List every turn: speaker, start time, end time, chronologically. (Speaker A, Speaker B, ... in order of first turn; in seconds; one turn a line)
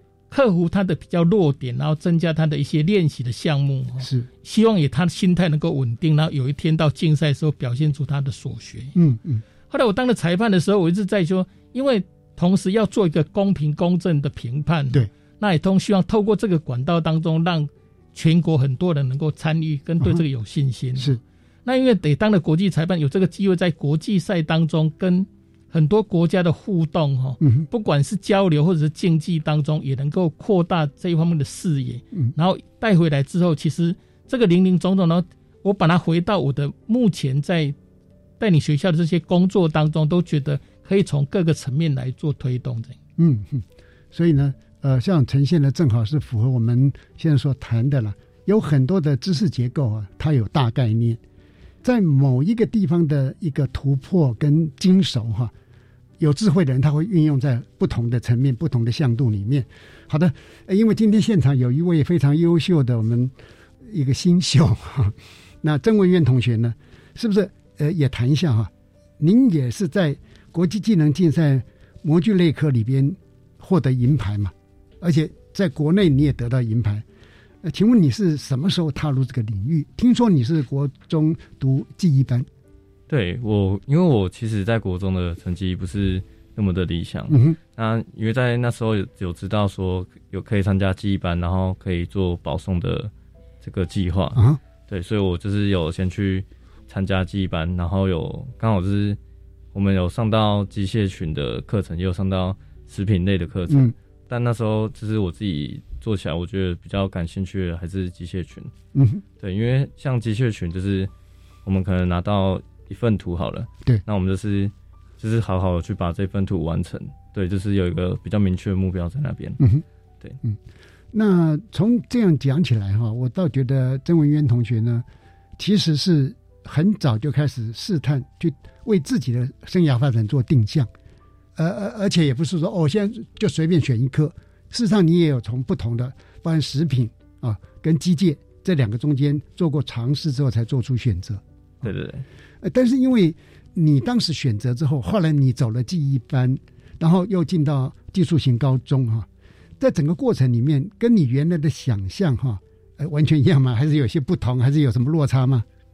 Speaker A: 0.3-8.9
Speaker B: 4.0-4.3
Speaker B: 8.9-9.4
Speaker A: 9.7-37.8
Speaker B: 27.4-27.7
Speaker A: 38.4-43.0
Speaker B: 43.2-51.2
Speaker B: 51.8-55.5
Speaker B: 56.2-63.3
Speaker B: 63.9-77.0
Speaker B: 77.6-82.5
Speaker C: 83.1-93.1
Speaker B: 87.3-87.6
Speaker C: 93.6-99.2
Speaker B: 94.3-94.6
Speaker C: 99.7-108.7
Speaker B: 103.7-103.9
Speaker B: 108.9-109.2
Speaker C: 109.4-111.1
Speaker C: 111.7-119.6
Speaker B: 119.6-119.8
Speaker B: 121.1-125.1
Speaker B: 125.6-130.9
Speaker B: 131.6-141.4
Speaker C: 141.8-142.2
Speaker B: 142.6-149.3
Speaker B: 149.8-155.7